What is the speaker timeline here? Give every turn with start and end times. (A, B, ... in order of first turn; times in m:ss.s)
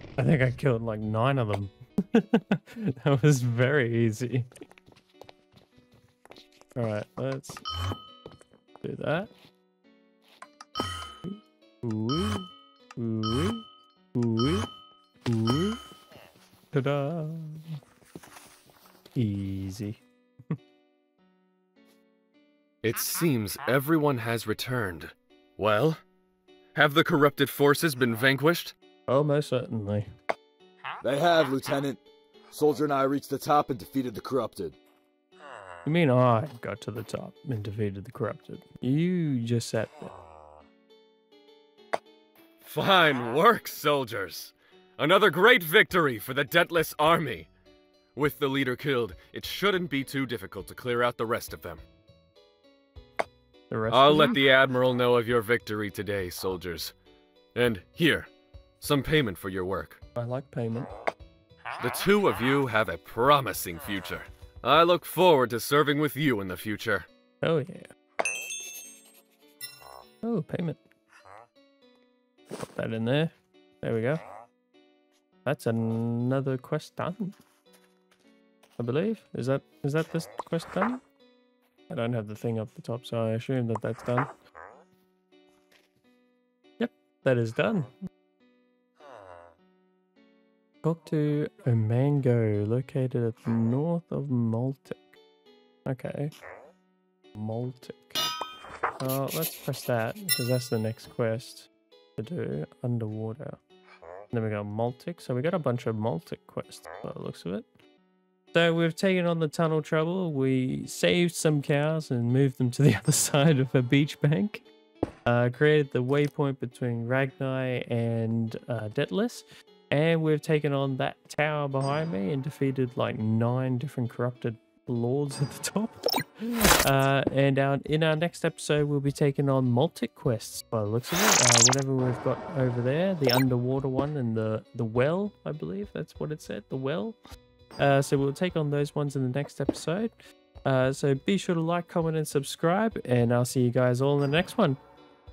0:00.2-0:04.5 A
0:06.8-0:07.6 A
0:08.8-0:09.3 A
0:11.2-0:14.7 A
0:15.3-0:15.8 A
0:16.7-0:17.8 A
0:19.2-0:20.6 A
0:22.8-0:26.0 B
0:26.7-0:28.7 B
0:29.1-0:30.1 A
0:31.0-0:32.0 C
0:32.5-0:34.8 C
0:35.8-0:40.1 A
0:42.6-0:47.5 B
0:48.2-0:51.8 B
0:53.7-0:54.4 A
0:53.9-0:56.9 B
0:57.6-0:58.3 B
0:58.8-1:00.0 B
1:00.2-1:00.9 A
1:01.8-1:07.1 B
1:07.4-1:07.9 A
1:10.2-1:10.8 A
1:12.6-1:14.2 A
1:15.4-1:17.4 A
1:18.8-1:21.0 A
1:21.9-1:24.3 A
1:26.8-1:27.9 A
1:30.8-1:35.1 A
1:35.9-1:36.3 A
1:37.4-1:38.2 A
1:39.0-1:43.6 A
1:44.3-1:47.7 A
1:48.5-1:54.6 A
1:55.2-2:17.2 A
2:17.8-2:20.1 A
2:20.6-2:24.8 A